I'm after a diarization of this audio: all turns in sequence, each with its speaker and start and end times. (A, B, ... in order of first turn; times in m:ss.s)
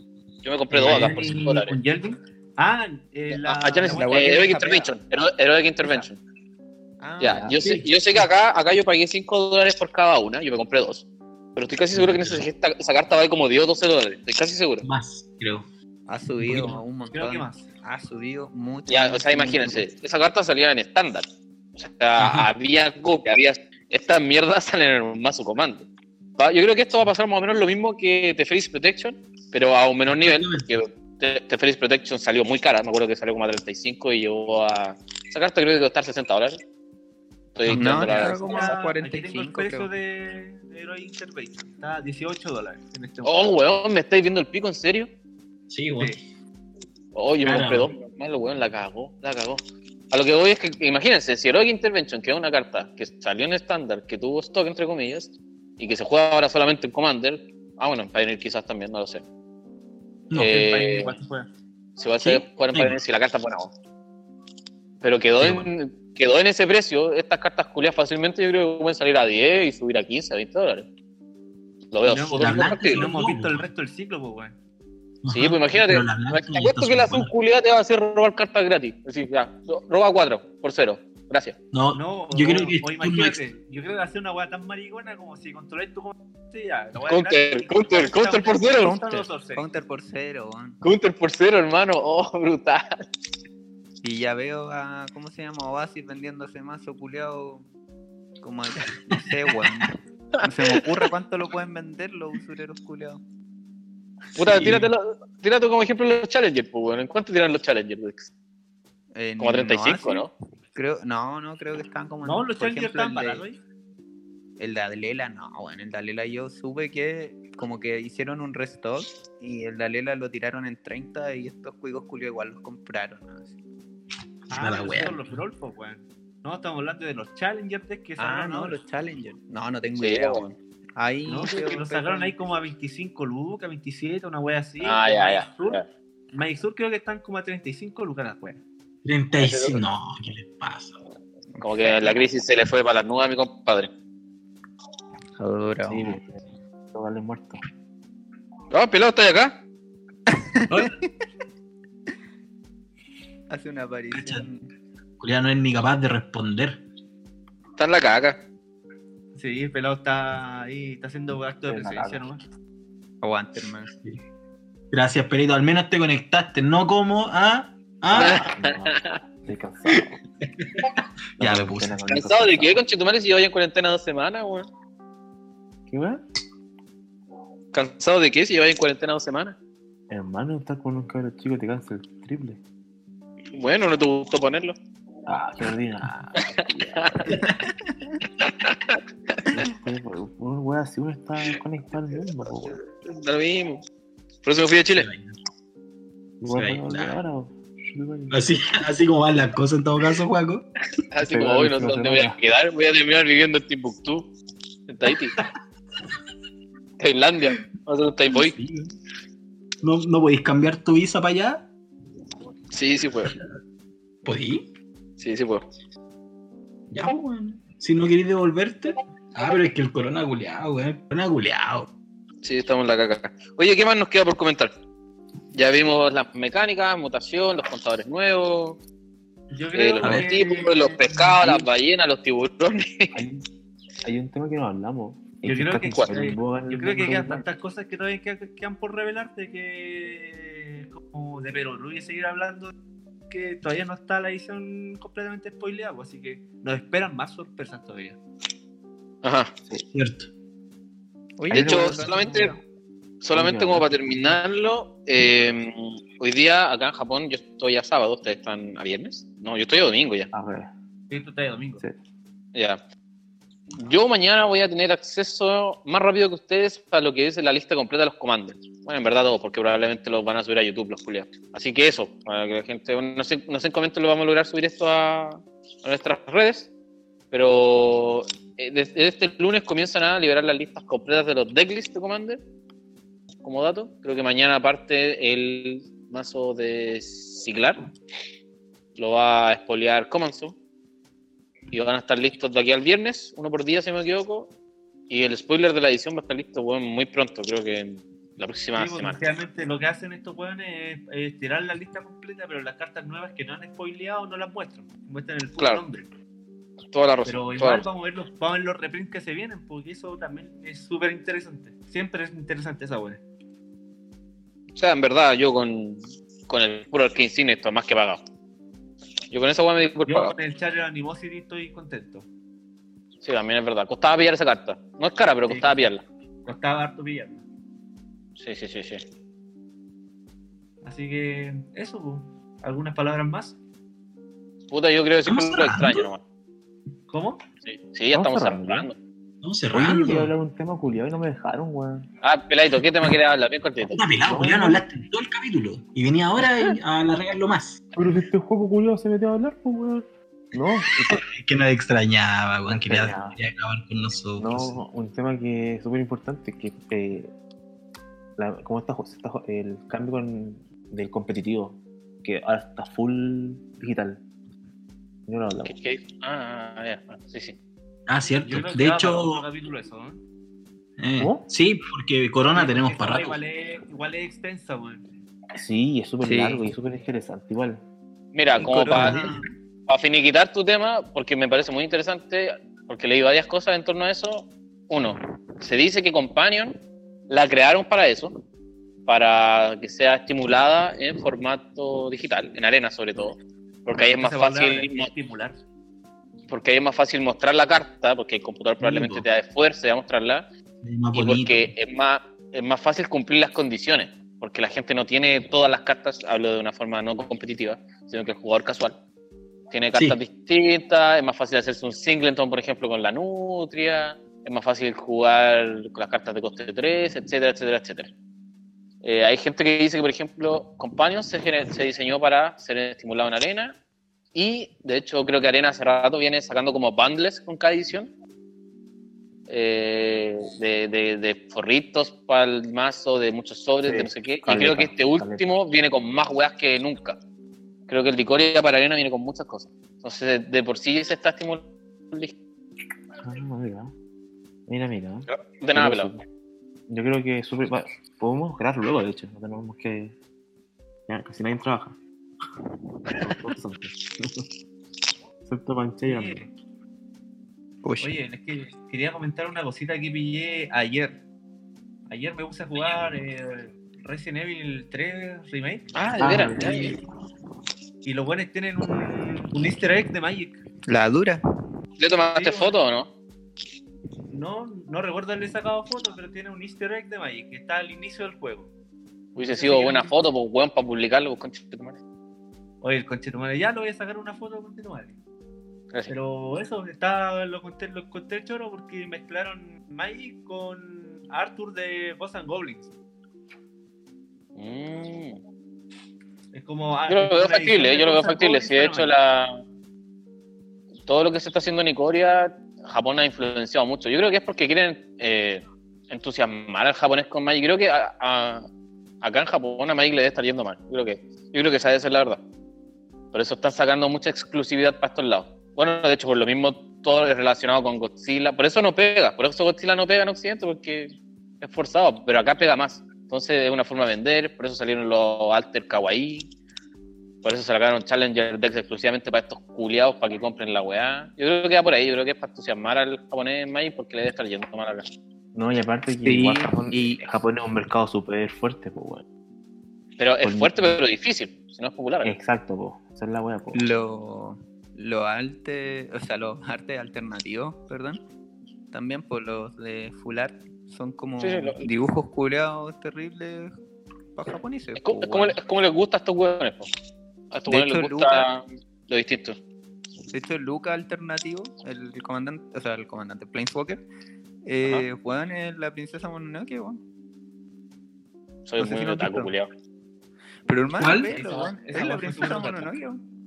0:00.4-0:01.8 A
0:00.8-0:01.1 B
0:00.8-0:04.9 C
0:03.3-0:06.2 A
0:03.9-0:04.4 D
0:05.8-0:06.1 C
0:07.0-0:07.5 D
0:07.2-0:14.8 A
0:07.5-0:07.9 B
0:11.9-0:12.5 B
0:14.8-0:15.6 B
0:16.1-0:19.9 D
0:16.4-0:16.8 B
0:17.1-0:17.7 C
0:18.9-0:25.9 A
0:22.2-0:22.5 B
0:26.4-0:36.6 A
0:30.1-0:30.7 B
0:37.6-0:38.8 A
0:37.6-0:38.1 B
0:37.7-0:39.9 D
0:38.0-0:43.5 C
0:43.2-0:45.1 A
0:45.7-0:46.2 B
0:47.1-0:59.2 A
0:47.4-0:47.9 B
1:00.3-1:01.2 A
1:00.3-1:01.5 C
1:02.0-1:03.7 A
1:02.2-1:03.0 B
1:05.0-1:10.9 A
1:05.4-1:05.7 B
1:11.9-1:13.1 A
1:12.0-1:14.5 C
1:12.3-1:13.7 B
1:15.2-1:17.3 B
1:15.3-1:21.5 A
1:21.7-1:23.4 B
1:21.9-1:29.6 C
1:27.0-1:29.0 A
1:29.1-1:30.8 D
1:30.8-1:33.0 A
1:34.0-1:37.6 D
1:38.4-1:43.2 D
1:39.1-1:39.8 B
1:40.4-1:40.8 A
1:44.4-1:48.3 A
1:44.4-1:44.9 B
1:49.1-1:53.4 D
1:49.4-1:50.3 A
1:52.2-1:53.6 C
1:54.6-2:03.5 D
2:04.5-2:08.8 C
2:04.5-2:05.3 B
2:08.2-2:12.3 D
2:10.0-2:10.4 A
2:11.2-2:15.8 C
2:14.8-2:15.8 A
2:16.3-2:18.6 C
2:19.0-2:21.0 B
2:19.4-2:19.9 A
2:21.5-2:22.2 D
2:21.6-2:23.9 A
2:25.4-2:26.0 D
2:25.8-2:26.4 E
2:26.9-2:27.6 E
2:28.7-2:29.6 A
2:30.3-2:31.0 D
2:33.5-2:34.7 D
2:34.1-2:34.4 B
2:35.2-2:36.8 B
2:37.8-2:38.4 A
2:39.4-2:42.4 C
2:41.7-2:42.2 E
2:43.2-2:43.9 D
2:43.9-2:44.2 B
2:44.9-2:48.4 B
2:48.1-2:50.2 E
2:48.1-2:49.2 A
2:50.6-2:50.8 B
2:51.4-2:52.0 B
2:51.4-2:52.8 E
2:52.1-2:54.7 A
2:55.9-2:56.2 E
2:57.7-2:59.6 A
3:00.1-3:02.6 E
3:03.5-3:04.8 A
3:05.2-3:07.3 E
3:06.4-3:07.3 A
3:07.3-3:08.2 D
3:08.4-3:09.6 A
3:09.5-3:12.8 E
3:12.5-3:13.8 A
3:14.4-3:15.1 A
3:14.9-3:15.4 B
3:16.4-3:18.7 E
3:16.5-3:17.1 B
3:18.3-3:20.6 B
3:21.1-3:24.3 A
3:21.2-3:22.4 E
3:24.9-3:25.4 A
3:27.0-3:28.6 A
3:28.3-3:28.9 B
3:29.8-3:31.6 B
3:32.7-3:33.4 A
3:34.2-3:34.6 B
3:35.2-3:35.6 A
3:36.9-3:41.9 B
3:42.4-3:44.7 A
3:45.5-3:48.8 A
3:49.5-3:51.6 C
3:49.7-3:53.2 A
3:53.1-3:53.4 E
3:54.0-3:57.4 E
3:55.4-4:02.7 C
4:03.3-4:08.2 C
4:09.2-4:09.5 A
4:09.9-4:10.3 B
4:11.4-4:12.6 D
4:11.5-4:12.5 E
4:11.5-4:12.5 A
4:13.2-4:20.3 A
4:13.3-4:13.9 E
4:20.3-4:20.7 E
4:21.1-4:21.8 C
4:22.5-4:22.8 A
4:23.7-4:36.7 A
4:37.3-4:42.4 A
4:43.4-4:47.8 A
4:49.0-4:50.5 A
4:51.7-4:54.5 A
4:55.1-4:59.2 A
4:58.7-5:06.0 C
5:05.6-5:05.8 A
5:06.9-5:07.8 A
5:07.2-5:13.2 C
5:14.7-5:18.2 A
5:19.3-5:20.3 A
5:20.1-5:22.2 C
5:23.2-5:26.0 A
5:25.5-5:25.9 C
5:26.4-5:27.4 C
5:28.4-5:29.0 A
5:30.8-5:33.6 C
5:34.7-5:36.2 A
5:35.2-5:36.1 B
5:37.1-5:37.4 C
5:37.6-5:39.0 A
5:38.1-5:38.9 E
5:39.4-5:40.3 B
5:39.7-5:42.0 E
5:42.2-5:44.0 A
5:43.9-5:47.9 B
5:44.2-5:44.8 E
5:47.9-5:51.2 E
5:51.0-5:54.8 B
5:52.7-5:53.4 E
5:54.4-5:57.3 E
5:58.4-6:04.2 E
6:05.3-6:05.7 E
6:05.6-6:07.6 A
6:08.1-6:09.4 B
6:08.4-6:10.2 C
6:11.0-6:13.4 B
6:11.2-6:11.4 E
6:12.5-6:15.0 C
6:15.5-6:17.8 E
6:16.2-6:16.7 D
6:18.3-6:19.3 A
6:18.6-6:19.4 D
6:18.9-6:19.2 B
6:19.9-6:26.8 A
6:27.3-6:28.3 A
6:29.0-6:35.1 A
6:34.2-6:35.6 C
6:36.5-6:40.5 A
6:38.8-6:39.2 B
6:40.8-6:41.7 B
6:41.1-6:49.0 A
6:49.7-6:58.1 A
6:59.0-7:03.7 A
7:04.3-7:08.1 A
7:09.5-7:17.2 A
7:13.8-7:15.6 E
7:17.9-7:22.3 A
7:23.2-7:23.9 E
7:24.7-7:26.2 E
7:25.3-7:26.1 A
7:26.9-7:30.1 E
7:31.1-7:32.0 E
7:33.1-7:34.4 E
7:35.4-7:36.4 E
7:36.0-7:36.5 C
7:37.8-7:38.1 D
7:38.0-7:41.2 C
7:42.1-7:45.9 C
7:45.9-7:47.0 A
7:46.2-7:46.9 E
7:46.6-7:47.0 C
7:48.0-7:50.6 C
7:50.9-7:51.4 D
7:52.0-7:53.1 A
7:52.3-7:52.7 C
7:54.3-7:58.7 C
7:59.4-8:02.0 A
7:59.4-8:00.1 C
8:02.8-8:05.2 C
8:06.1-8:12.9 C
8:14.6-8:15.4 A
8:16.5-8:19.1 C
8:17.1-8:19.6 A
8:21.0-8:28.6 A
8:29.2-8:32.4 A
8:33.3-8:41.1 A
8:41.6-8:46.5 A
8:47.4-8:55.0 A
8:55.5-8:59.2 E
8:56.2-8:57.2 D
9:00.2-9:02.3 A
9:00.4-9:01.0 E
9:02.2-9:03.9 E
9:03.7-9:08.2 D
9:08.9-9:13.7 D
9:11.4-9:11.9 A
9:14.4-9:15.6 D
9:15.0-9:16.9 A
9:17.5-9:19.6 A
9:17.7-9:18.5 D
9:20.3-9:24.0 D
9:24.6-9:27.0 D
9:28.6-9:29.7 A
9:28.8-9:29.5 D
9:30.7-9:33.2 D
9:31.0-9:31.3 B
9:31.3-9:32.9 C